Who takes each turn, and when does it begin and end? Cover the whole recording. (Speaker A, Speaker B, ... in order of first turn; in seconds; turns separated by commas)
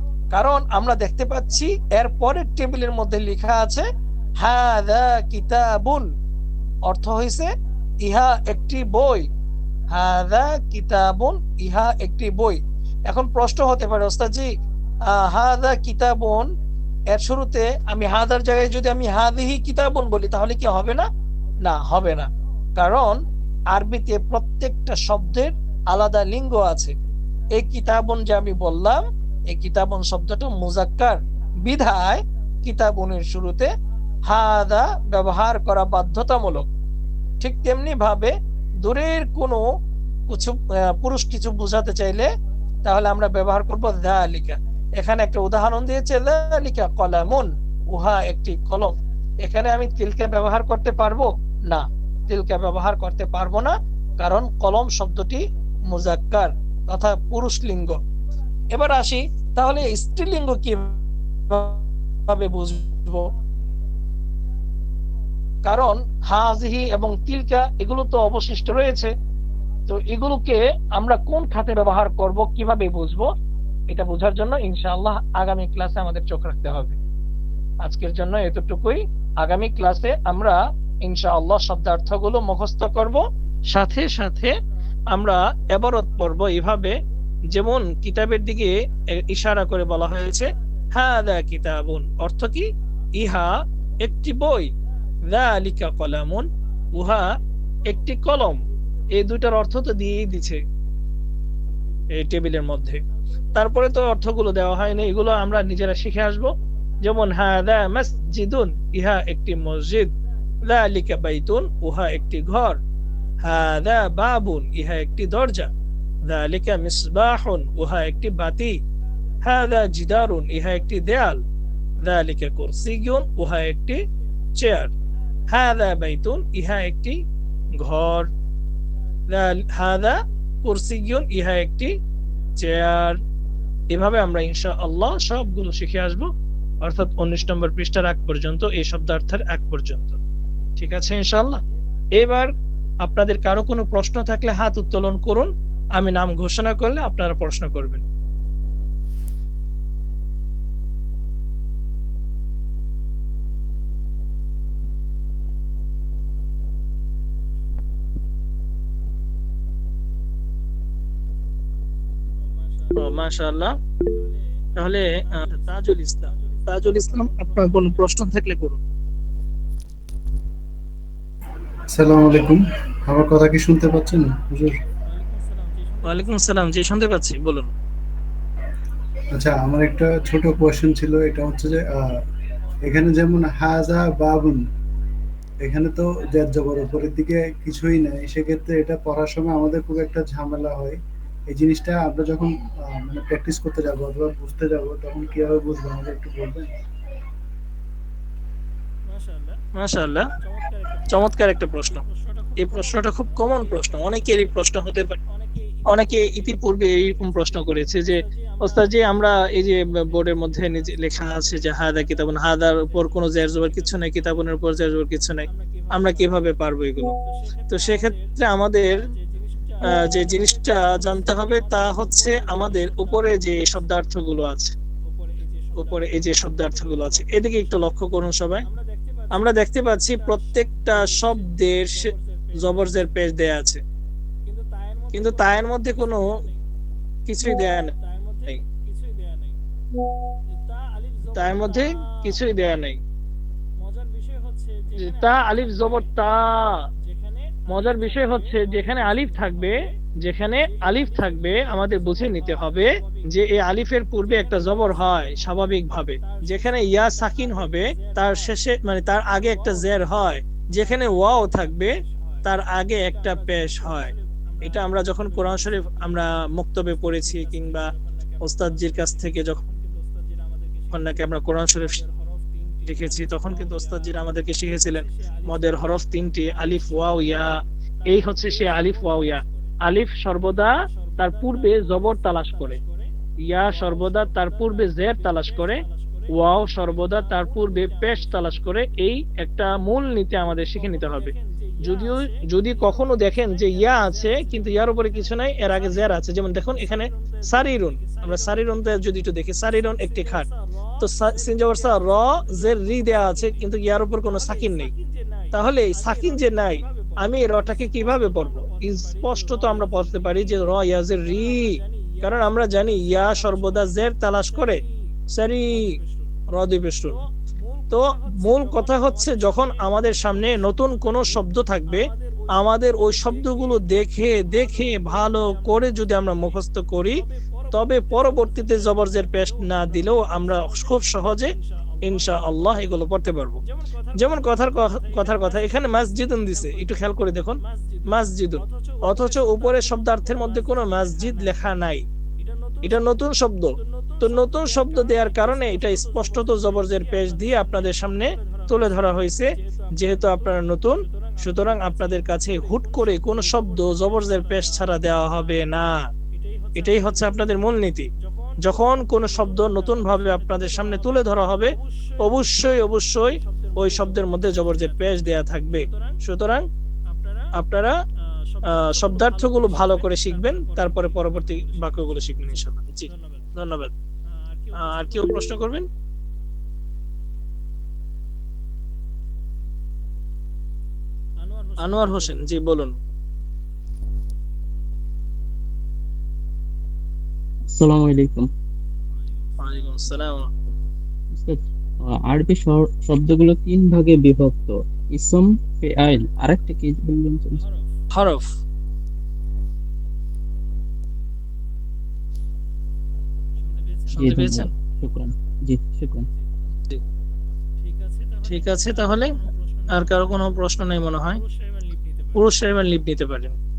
Speaker A: 0.3-3.9, Speaker A: 4.4-6.1, Speaker A: 6.9-7.5, Speaker A: 8.0-9.3, Speaker A: 9.9-14.5, Speaker A: 15.1-16.5, Speaker A: 17.1-21.1, Speaker A: 21.6-23.2, Speaker A: 23.7-26.9, Speaker A: 27.5-33.7, Speaker A: 34.3-36.7, Speaker A: 37.4-39.6, Speaker A: 40.3-42.3, Speaker A: 42.9-58.0, Speaker A: 58.7-61.0, Speaker A: 61.5-63.3, Speaker A: 65.7-69.1, Speaker A: 69.9-73.3, Speaker A: 73.9-77.0, Speaker A: 77.8-84.5, Speaker A: 85.1-87.0, Speaker A: 87.5-94.7, Speaker A: 95.3-97.3, Speaker A: 97.9-98.6, Speaker A: 99.2-100.6, Speaker A: 102.2-103.0, Speaker A: 103.5-106.5, Speaker A: 107.0-110.1, Speaker A: 110.7-112.8, Speaker A: 113.4-115.7, Speaker A: 116.3-118.8, Speaker A: 119.4-121.4, Speaker A: 122.0-124.0, Speaker A: 124.6-124.9, Speaker A: 125.5-127.2, Speaker A: 127.8-128.3, Speaker A: 129.3-131.9, Speaker A: 132.6-133.2, Speaker A: 133.9-136.3, Speaker A: 136.8-140.2, Speaker A: 140.8-141.6, Speaker A: 142.2-142.5, Speaker A: 143.0-148.1, Speaker B: 162.4-163.1, Speaker A: 163.0-163.7, Speaker B: 164.2-164.4, Speaker A: 164.8-168.8, Speaker B: 165.3-167.6, Speaker C: 171.9-174.8, Speaker B: 175.0-176.5, Speaker A: 176.1-177.7, Speaker C: 179.3-182.1, Speaker C: 182.8-184.6, Speaker C: 185.6-191.0, Speaker C: 191.5-196.7, Speaker B: 199.1-199.6, Speaker A: 199.8-200.3, Speaker B: 200.4-203.9, Speaker A: 201.1-202.0, Speaker A: 202.6-205.2, Speaker B: 205.3-209.1, Speaker A: 205.9-217.2, Speaker B: 211.2-211.6, Speaker B: 215.5-216.5, Speaker B: 217.1-218.3, Speaker A: 217.7-219.0, Speaker B: 219.1-223.8, Speaker A: 219.8-224.8, Speaker B: 225.0-227.3, Speaker A: 225.8-228.7, Speaker B: 228.7-232.8, Speaker A: 229.3-232.1, Speaker A: 232.6-233.8, Speaker B: 234.5-236.6, Speaker A: 235.1-236.3, Speaker A: 237.3-237.9, Speaker B: 237.9-239.6, Speaker B: 240.5-242.6, Speaker A: 241.3-243.0, Speaker B: 243.8-246.0, Speaker A: 245.0-246.8, Speaker B: 247.0-249.7, Speaker A: 247.7-261.9, Speaker B: 250.9-253.3, Speaker B: 254.5-255.6, Speaker B: 256.2-258.5, Speaker B: 259.6-260.1, Speaker B: 262.0-262.4, Speaker A: 262.4-264.1, Speaker B: 263.4-265.9, Speaker A: 264.6-267.9, Speaker B: 267.2-268.4, Speaker A: 268.4-269.6, Speaker B: 269.7-271.0, Speaker A: 270.9-272.0, Speaker B: 271.8-274.2, Speaker A: 272.9-277.5, Speaker B: 274.9-275.8, Speaker A: 278.1-282.8, Speaker B: 278.2-279.7, Speaker B: 280.9-283.1, Speaker A: 283.5-285.8, Speaker B: 283.7-286.3, Speaker A: 286.3-291.3, Speaker B: 287.4-288.6, Speaker B: 290.8-295.0, Speaker A: 291.8-300.5, Speaker B: 295.6-295.9, Speaker B: 296.8-298.7, Speaker B: 299.8-301.0, Speaker A: 301.0-304.9, Speaker B: 301.6-303.6, Speaker B: 304.3-313.9, Speaker A: 305.5-314.8, Speaker B: 314.5-314.9, Speaker A: 315.4-315.9, Speaker B: 315.7-316.3, Speaker A: 316.5-317.2, Speaker B: 317.6-320.5, Speaker A: 317.9-327.2, Speaker B: 321.9-326.6, Speaker B: 327.5-330.6, Speaker A: 327.7-331.5, Speaker B: 331.6-332.5, Speaker A: 332.0-333.6, Speaker B: 333.7-336.9, Speaker A: 334.2-342.0, Speaker B: 337.6-341.7, Speaker B: 342.4-343.0, Speaker A: 342.8-355.9, Speaker B: 343.8-347.7, Speaker B: 348.4-348.7, Speaker B: 349.6-349.9, Speaker B: 351.1-355.0, Speaker B: 356.3-357.4, Speaker A: 356.8-358.1, Speaker B: 358.2-361.2, Speaker A: 358.6-366.6, Speaker B: 361.8-362.2, Speaker B: 363.4-364.7, Speaker B: 365.9-366.2, Speaker B: 367.1-367.5, Speaker A: 367.5-367.9, Speaker B: 368.5-373.5, Speaker A: 368.9-373.9, Speaker B: 374.4-375.5, Speaker A: 374.8-375.9, Speaker B: 381.4-382.4, Speaker A: 381.8-383.0, Speaker D: 387.7-388.5, Speaker B: 389.1-390.1, Speaker A: 389.6-390.5, Speaker D: 391.4-397.6, Speaker B: 397.6-397.9, Speaker A: 398.1-398.5, Speaker B: 403.6-404.3, Speaker A: 404.1-404.7, Speaker D: 404.2-406.3, Speaker B: 407.8-410.2, Speaker A: 408.5-409.3, Speaker A: 409.9-411.4, Speaker B: 411.3-412.4, Speaker A: 412.4-413.6